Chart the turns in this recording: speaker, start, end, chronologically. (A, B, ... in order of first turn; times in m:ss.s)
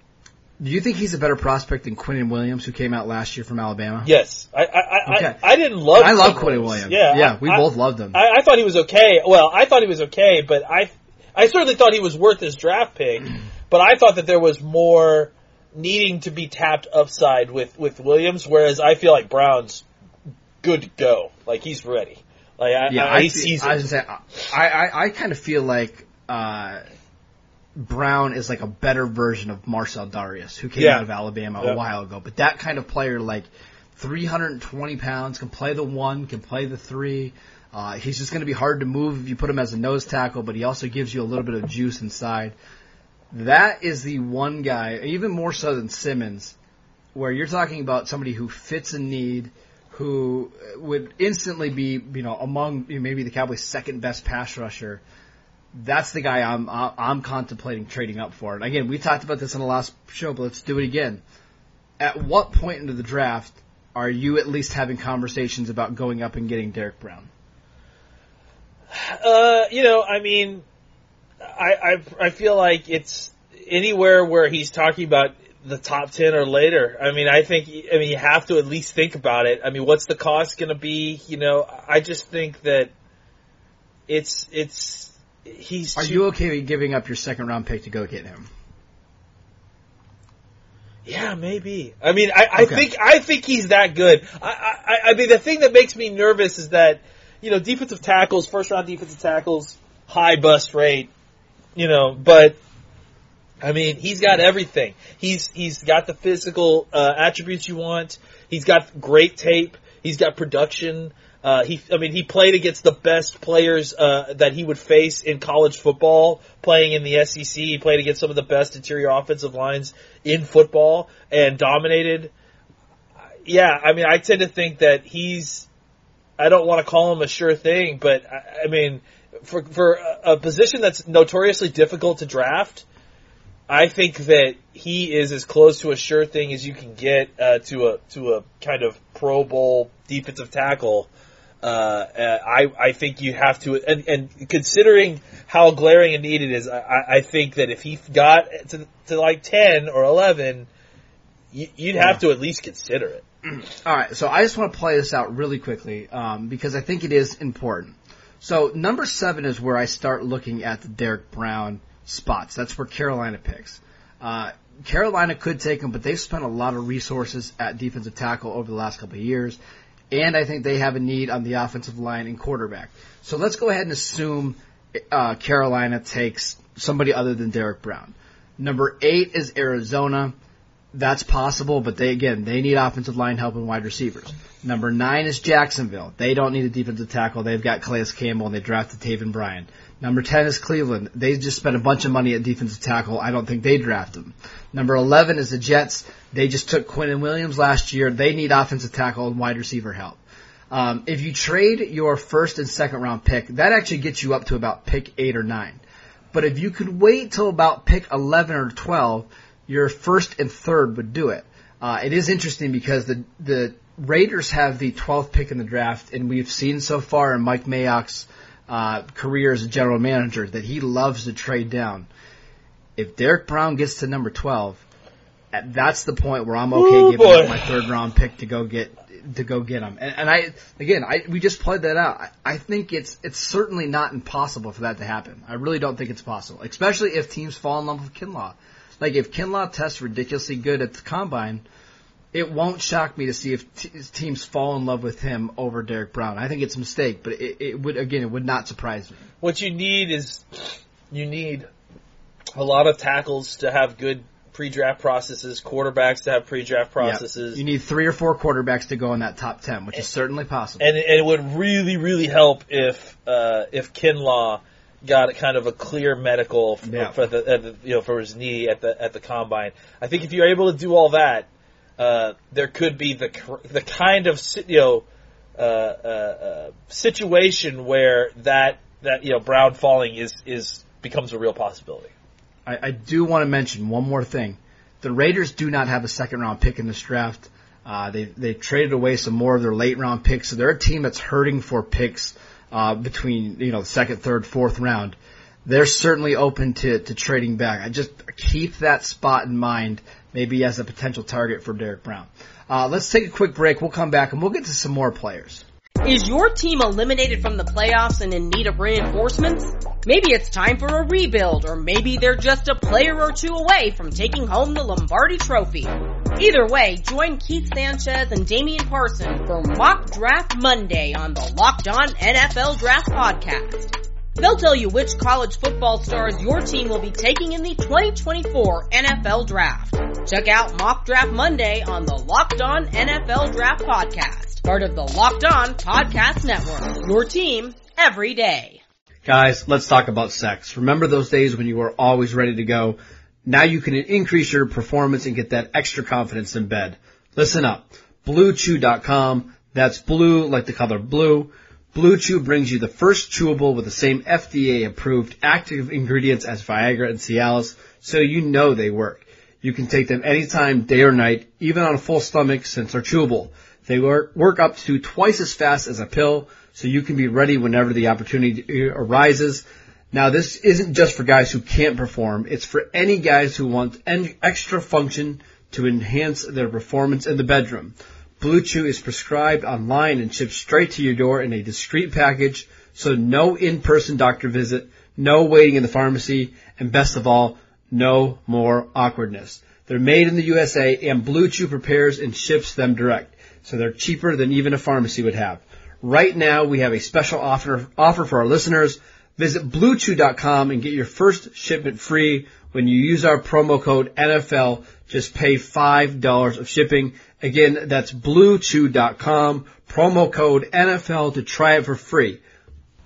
0:00.6-0:04.1 A
0:04.0-0:19.8 B
0:05.1-0:05.4 A
0:05.9-0:08.2 A
0:20.6-0:23.8 B
0:22.9-0:26.8 A
0:27.8-0:42.6 A
0:30.8-0:31.1 B
0:43.3-0:46.6 A
0:47.1-0:55.0 A
0:55.8-1:01.2 A
1:02.0-1:07.3 A
1:08.9-1:10.6 B
1:11.4-1:22.9 B
1:24.1-1:26.2 B
1:26.0-1:28.5 A
1:31.1-1:41.1 B
1:32.6-1:32.8 A
1:41.8-1:42.6 B
1:43.6-2:02.3 B
2:03.4-2:05.7 B
2:06.4-2:12.8 B
2:13.7-2:21.1 B
2:21.6-2:30.7 B
2:31.5-2:33.2 B
2:32.0-2:32.2 A
2:33.8-2:49.6 A
2:50.1-3:00.4 A
3:00.9-3:25.8 A
3:26.3-3:42.1 A
3:43.0-3:44.8 A
3:45.5-4:01.6 A
3:46.7-3:47.9 B
4:02.3-4:09.3 A
4:09.4-4:11.7 B
4:12.5-4:17.6 B
4:17.0-4:20.9 A
4:20.8-4:42.1 B
4:26.8-4:27.2 A
4:42.7-5:05.6 A
5:06.0-5:38.8 C
5:39.3-6:52.4 A